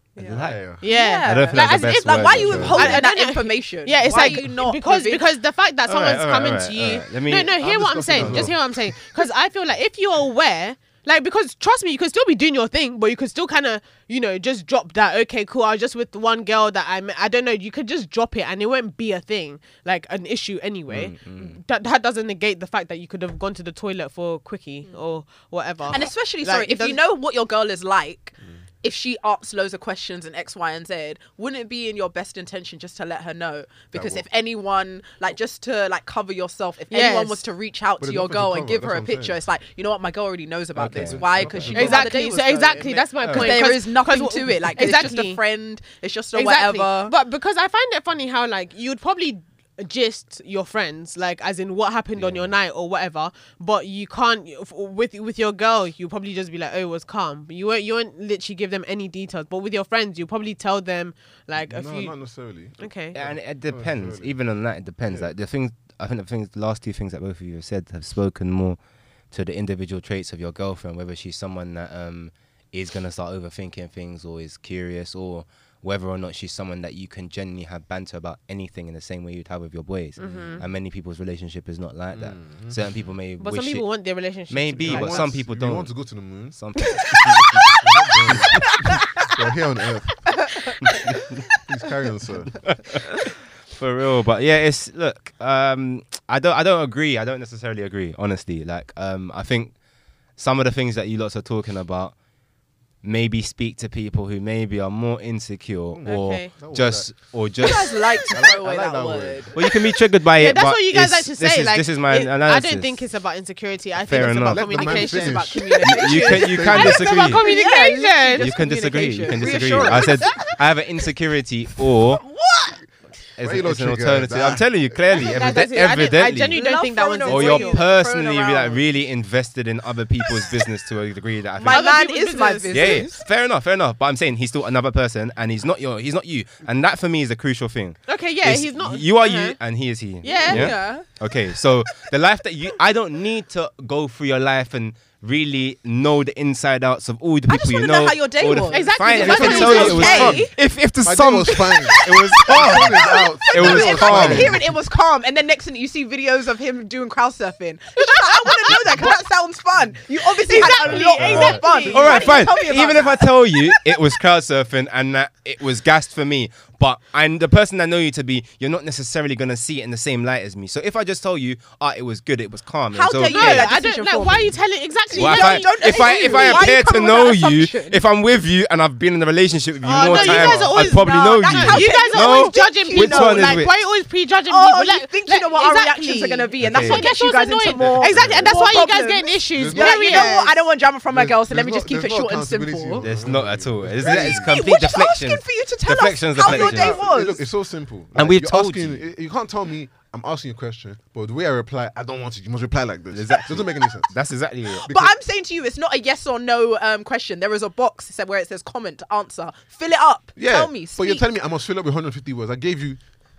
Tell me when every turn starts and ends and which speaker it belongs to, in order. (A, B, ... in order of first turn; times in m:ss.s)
0:00.2-0:05.3 A
0:00.2-0:00.6 B
0:00.3-0:00.8 C
0:00.8-0:27.0 D
0:01.2-0:03.0 B
0:02.4-0:02.9 C
0:05.9-0:07.6 B
0:07.6-0:08.9 C
0:08.1-0:08.5 B
0:20.9-0:21.6 B
0:25.9-0:47.1 A
0:33.9-0:34.2 C
0:36.9-0:37.4 D
0:38.0-0:39.4 C
0:40.8-0:41.9 B
0:40.9-0:42.1 C
0:41.7-0:45.4 D
0:43.2-0:43.5 B
0:46.3-1:02.1 D
0:52.2-0:52.5 B
1:01.6-1:04.3 C
1:02.8-1:03.2 D
1:03.2-1:08.8 B
1:05.1-1:05.3 C
1:09.3-1:23.8 B
1:20.2-1:20.6 D
1:22.1-1:22.8 C
1:23.4-1:25.3 D
1:24.5-1:25.9 B
1:24.8-1:30.3 C
1:26.6-1:27.7 B
1:27.4-1:27.7 A
1:28.6-1:29.3 A
1:30.4-1:31.1 A
1:31.5-1:32.6 C
1:32.7-1:39.7 B
1:40.4-1:42.2 B
1:43.0-1:48.2 B
1:45.9-1:47.1 C
1:46.1-1:46.5 D
1:47.6-1:49.8 A
1:47.6-1:49.5 C
1:49.6-1:53.0 B
1:50.4-1:58.5 D
1:54.0-1:54.6 B
1:54.4-1:57.2 C
1:54.7-2:00.6 A
1:55.8-1:57.4 B
1:58.4-2:02.2 B
1:59.4-2:00.1 C
2:02.0-2:02.8 A
2:03.4-2:06.6 B
2:03.4-2:05.6 C
2:05.1-2:07.8 D
2:06.5-2:08.8 A
2:07.2-2:11.9 B
2:10.4-2:10.6 A
2:11.6-2:13.2 A
2:11.7-2:13.1 D
2:12.7-2:34.6 B
2:18.1-2:19.6 D
2:20.2-2:20.7 D
2:20.2-2:21.1 A
2:27.5-2:30.5 A
2:28.7-2:30.4 D
2:29.2-2:30.5 C
2:31.0-2:34.7 C
2:31.8-2:43.8 A
2:38.4-2:38.8 D
2:40.4-2:42.5 D
2:40.9-2:53.7 B
2:52.9-2:54.6 A
2:53.3-2:56.7 D
2:55.1-2:58.0 A
2:55.2-3:03.7 B
2:59.8-3:10.6 D
2:59.9-3:03.7 A
3:04.5-3:13.0 A
3:06.6-3:07.1 B
3:07.8-3:08.6 C
3:09.5-3:10.4 C
3:11.1-3:14.6 C
3:13.0-3:17.1 B
3:14.0-3:17.4 A
3:16.4-3:24.1 C
3:18.2-3:19.0 B
3:23.1-3:24.9 B
3:24.7-3:31.2 A
3:24.9-3:25.1 C
3:30.4-3:33.0 C